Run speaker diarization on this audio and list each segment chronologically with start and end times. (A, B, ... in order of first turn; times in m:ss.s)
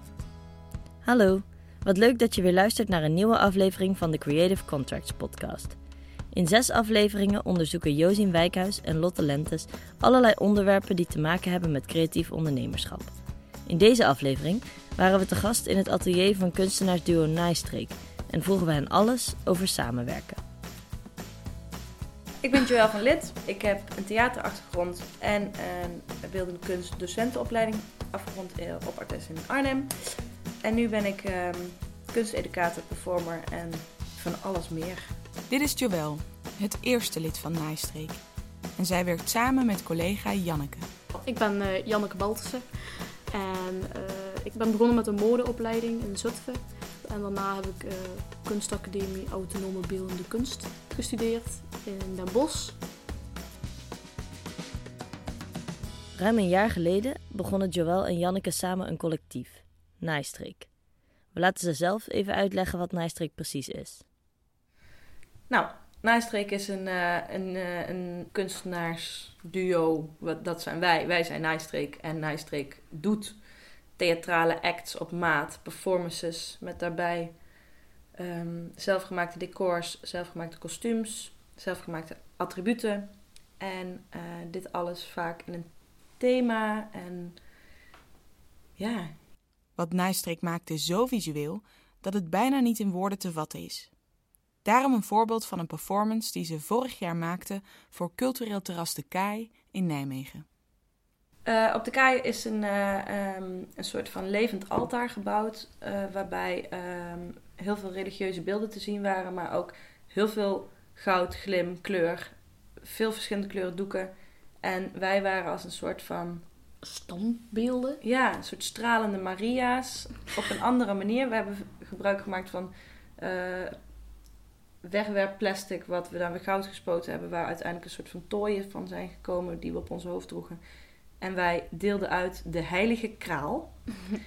0:01.0-0:05.8 A
0:06.3-0:13.1 A
0:13.6-0:20.4 A
0:22.4-0:35.2 B
0:35.5-0:38.2 C
0:38.8-0:40.9 C
0:41.2-0:52.8 D
0:56.1-1:00.7 A
1:01.3-1:04.0 A
1:05.5-1:27.4 B
1:28.8-1:29.2 B
1:29.7-1:33.9 C
1:34.6-1:40.4 C
1:41.4-1:56.4 B
1:56.8-1:58.0 D
1:58.0-2:03.9 B
2:04.8-2:10.6 B
2:11.2-2:14.0 B